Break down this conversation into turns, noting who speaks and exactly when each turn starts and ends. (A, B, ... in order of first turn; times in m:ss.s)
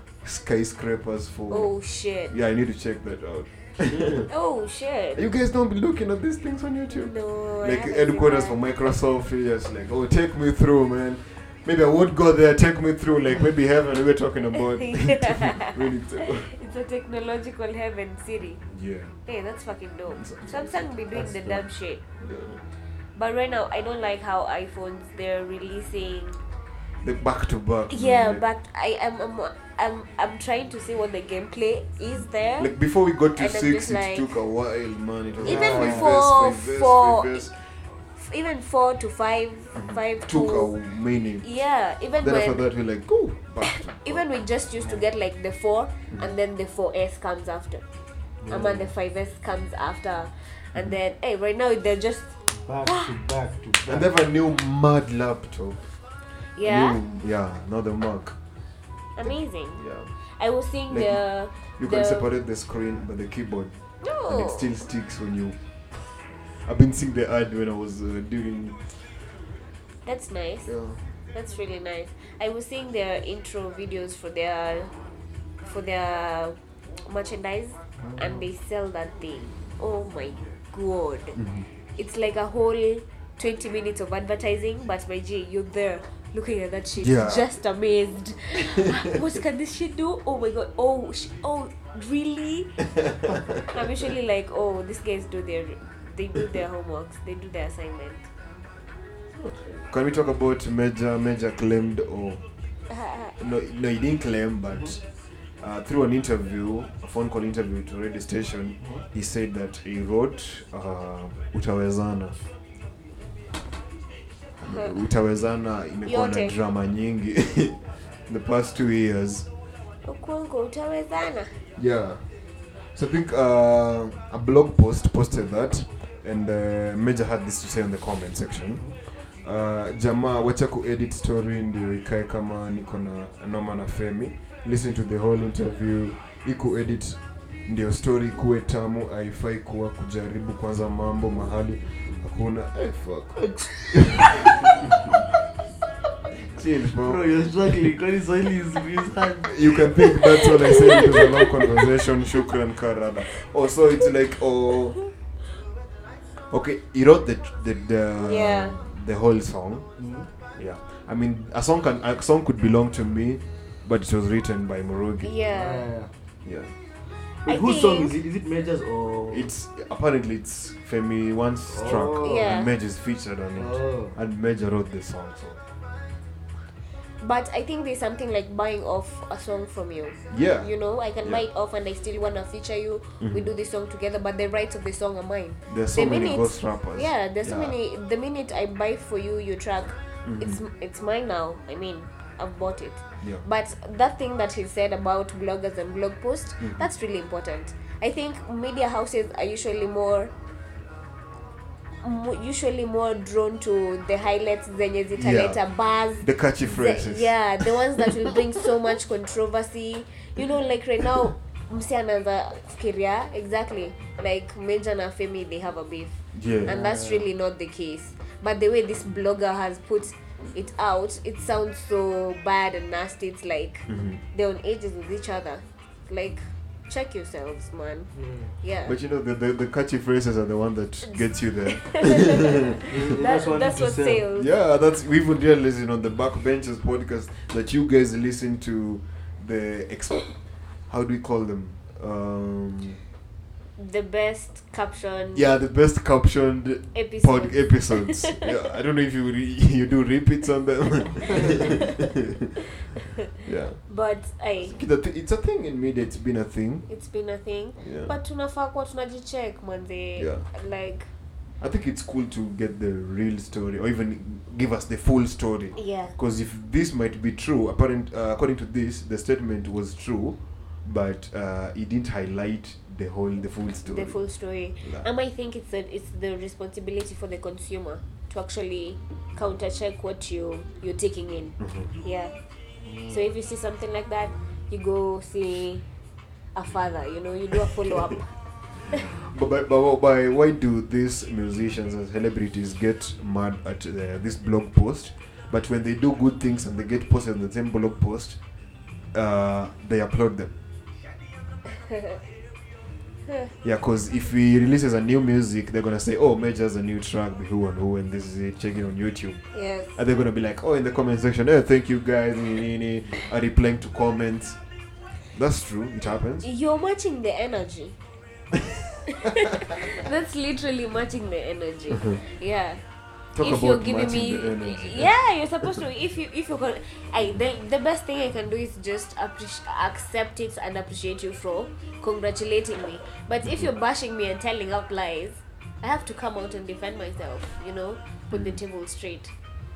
0:00.2-0:01.7 A
0:01.5-0:02.3 B
0:02.3-0:04.3 A
0:03.8-0:04.3 C
0:04.3-0:05.2 B
0:05.1-0:16.5 A
0:06.9-0:08.6 B
0:14.8-0:18.6 B
0:18.7-0:19.1 A
0:19.2-0:22.0 B
0:20.1-0:20.9 A
0:21.1-0:21.6 C
0:22.2-0:22.6 A
0:23.2-0:26.4 B
0:27.0-0:28.4 A
0:27.9-0:32.7 B
0:32.6-0:37.6 A
0:33.3-0:34.4 B
0:35.4-0:36.2 C
0:35.4-0:37.5 B
0:38.2-0:40.7 B
0:39.7-0:41.4 A
0:41.4-0:42.6 B
0:42.2-0:44.2 A
0:43.6-0:47.8 B
0:48.4-0:48.9 C
0:48.5-0:53.1 B
0:52.6-0:54.1 C
0:53.8-0:55.8 A
0:56.6-0:57.0 B
0:56.6-0:58.4 A
0:59.2-1:02.3 B
0:59.2-1:00.1 A
1:00.9-1:05.6 A
1:04.0-1:04.7 B
1:06.6-1:09.0 A
1:10.0-1:10.7 B
1:10.6-1:11.0 A
1:11.3-1:14.9 B
1:15.6-1:21.4 B
1:18.0-1:18.4 C
1:21.4-1:21.6 A
1:22.0-1:32.9 B
1:27.0-1:27.4 A
1:33.5-1:38.3 B
1:39.4-1:42.4 A
1:42.9-1:43.3 B
1:43.4-1:45.0 A
1:45.6-1:52.4 A
1:54.6-1:59.5 A
1:56.0-1:56.5 B
2:00.0-2:01.6 B
2:01.8-2:02.2 A
2:02.9-2:24.5 A
2:23.4-2:25.1 C
2:26.4-2:27.9 A
2:27.0-2:30.1 C
2:29.5-2:35.0 A
2:30.4-2:31.3 B
2:36.5-2:39.9 A
2:38.2-2:38.8 B
2:40.0-2:40.3 C
2:40.6-2:45.5 A
2:45.2-2:45.8 B
2:45.5-2:46.1 C
2:46.4-2:46.7 A
2:47.4-2:49.5 C
2:47.4-2:48.1 B
2:49.3-2:55.6 A
2:51.7-2:52.5 C
2:52.2-2:52.7 B
2:53.5-2:54.2 C
2:57.2-3:20.3 B
3:00.3-3:01.4 A
3:03.2-3:03.5 A
3:05.7-3:07.8 A
3:10.2-3:10.6 A
3:16.6-3:16.8 A
3:22.0-3:48.9 B
3:25.1-3:25.6 A
3:26.2-3:28.1 A
3:36.3-3:36.8 A
3:36.7-3:37.2 C
3:43.9-3:44.2 A
3:48.1-3:48.5 C
3:48.8-3:52.5 A
3:51.1-3:54.5 B
3:52.9-3:54.2 C
3:54.4-4:00.3 A
4:00.9-4:03.0 A
4:03.8-4:05.5 B
4:05.3-4:12.4 A
4:06.9-4:08.4 B
4:13.4-4:13.9 A
4:13.9-4:14.8 B
4:14.6-4:16.8 A
4:16.9-4:21.1 B
4:17.8-4:18.1 A
4:20.2-4:20.4 A
4:21.6-4:34.2 A
4:25.8-4:26.1 B
4:33.9-4:42.3 B
4:34.8-4:35.1 A
4:41.6-4:41.9 A
4:42.8-4:43.2 C
4:43.1-4:45.8 B
4:46.5-4:48.3 B
4:48.9-4:58.4 A
4:59.1-5:00.5 A
5:01.7-5:02.1 B
5:03.6-5:09.4 A
5:09.5-5:10.0 B
5:10.0-5:14.6 A
5:15.3-5:16.5 A
5:16.4-5:18.0 B
5:19.1-5:22.8 B
5:21.9-5:22.2 A
5:23.3-5:25.1 A
5:23.4-5:39.3 B
5:38.3-5:38.6 A